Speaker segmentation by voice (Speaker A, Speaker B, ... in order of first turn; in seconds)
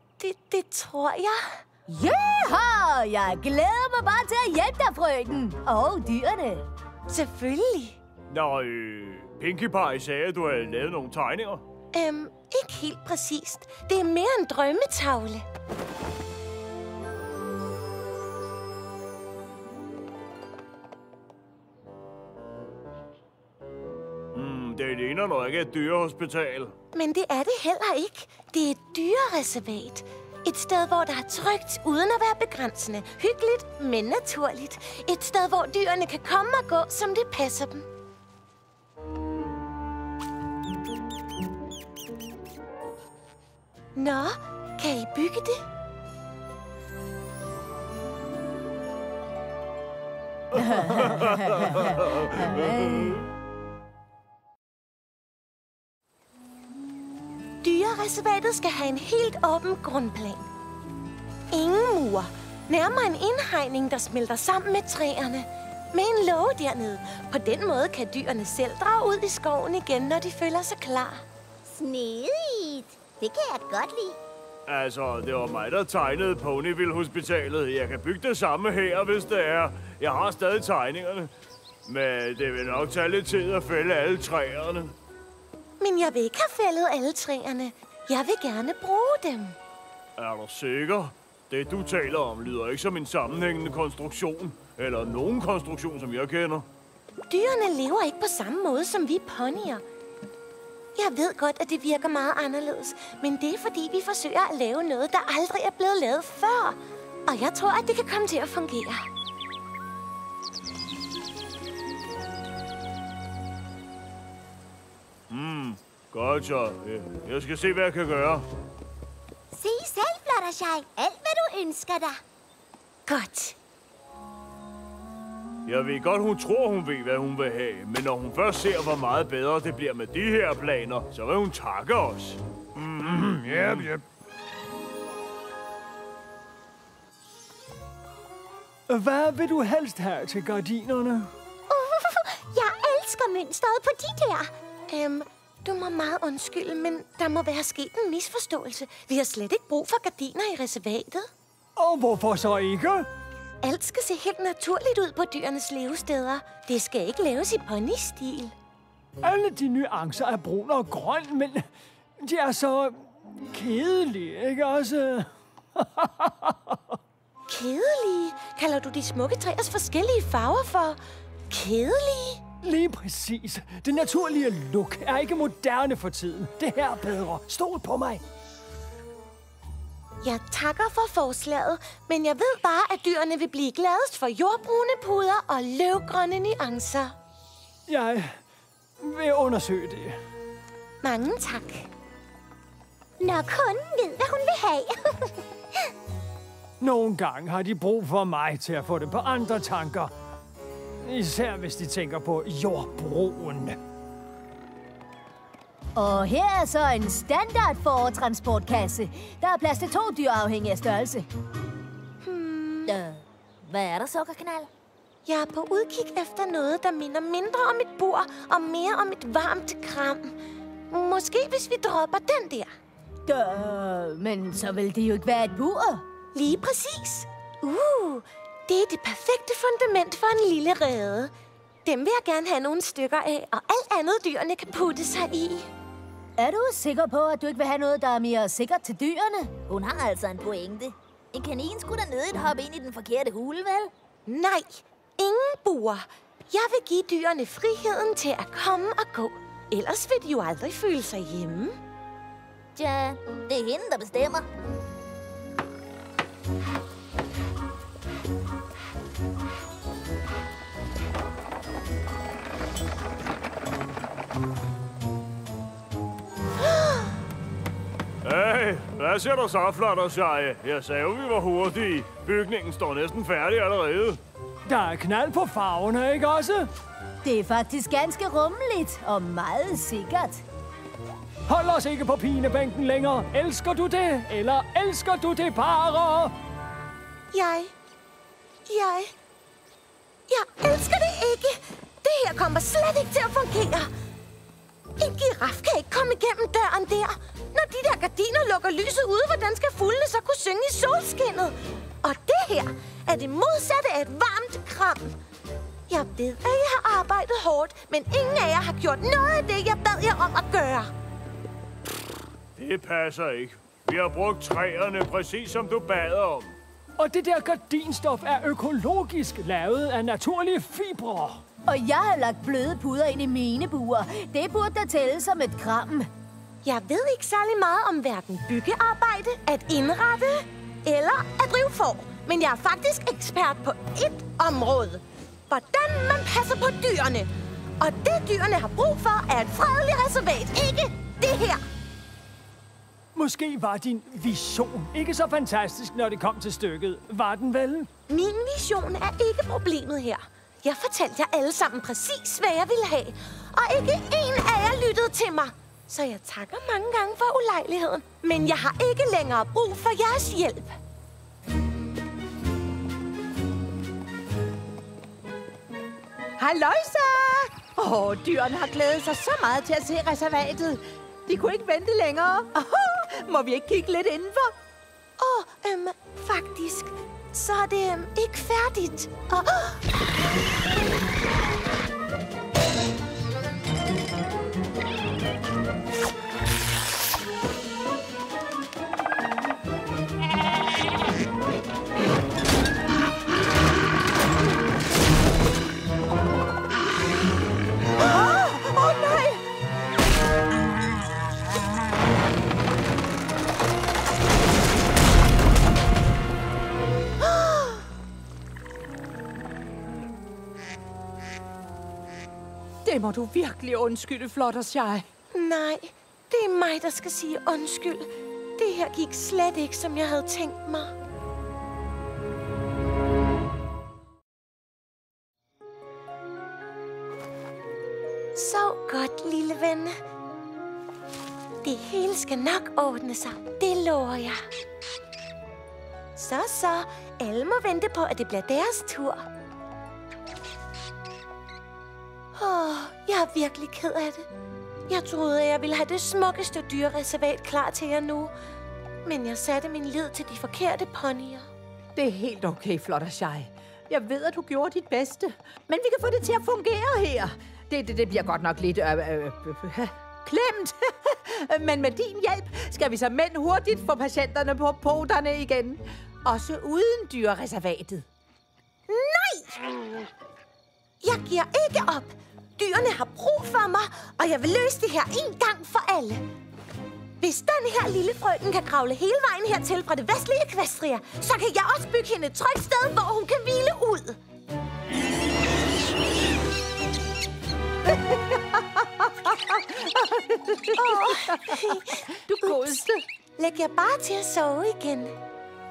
Speaker A: 0.2-1.6, 7.1-8.0, 11.9-15.5, 26.9-37.9, 44.0-45.6, 57.6-60.5, 61.5-71.2, 85.8-89.6, 97.3-99.8, 101.0-109.1, 123.1-123.6, 144.9-151.3, 153.6-158.5, 167.5-171.0, 171.5-172.4, 180.2-187.2, 191.0-191.9, 212.2-213.0, 215.3-220.3, 220.9-222.7, 226.3-231.3, 231.8-235.7, 244.3-251.8, 287.3-287.7, 288.7-289.1, 290.3-293.9, 295.0-305.2, 305.9-310.9, 326.6-341.6, 348.1-360.8, 375.2-379.8, 415.3-420.9, 428.4-430.0, 431.6-434.4, 436.2-439.3, 442.4-444.3, 444.9-448.3, 449.1-451.5, 468.9-469.6, 471.0-476.2, 477.2-484.2, 490.8-492.9, 493.4-495.1
Speaker B: 1.9-6.7, 50.6-53.2, 206.0-211.3, 223.3-226.0, 236.4-239.6, 277.2-280.4, 321.7-326.1
Speaker C: 8.3-11.6, 24.3-26.8, 50.8-53.1, 74.7-81.3, 81.9-85.0, 90.2-96.7, 115.3-118.5, 125.7-133.9, 268.2-274.2, 312.6-316.6
Speaker D: 71.7-74.2, 119.5-122.2, 141.7-144.5, 193.2-195.4
Speaker E: 133.1-134.0, 138.9-141.3, 151.8-153.1, 159.2-161.7, 162.2-167.0, 172.6-178.2, 187.9-188.4, 189.0-190.2, 196.8-200.1, 201.0-203.8, 274.7-276.7, 281.5-286.3, 317.0-321.4, 343.1-347.9
Speaker F: 212.9-214.7, 239.7-243.9, 252.8-254.5
Speaker G: 366.4-374.6, 398.0-399.4, 412.9-415.1, 452.0-468.1, 487.9-493.0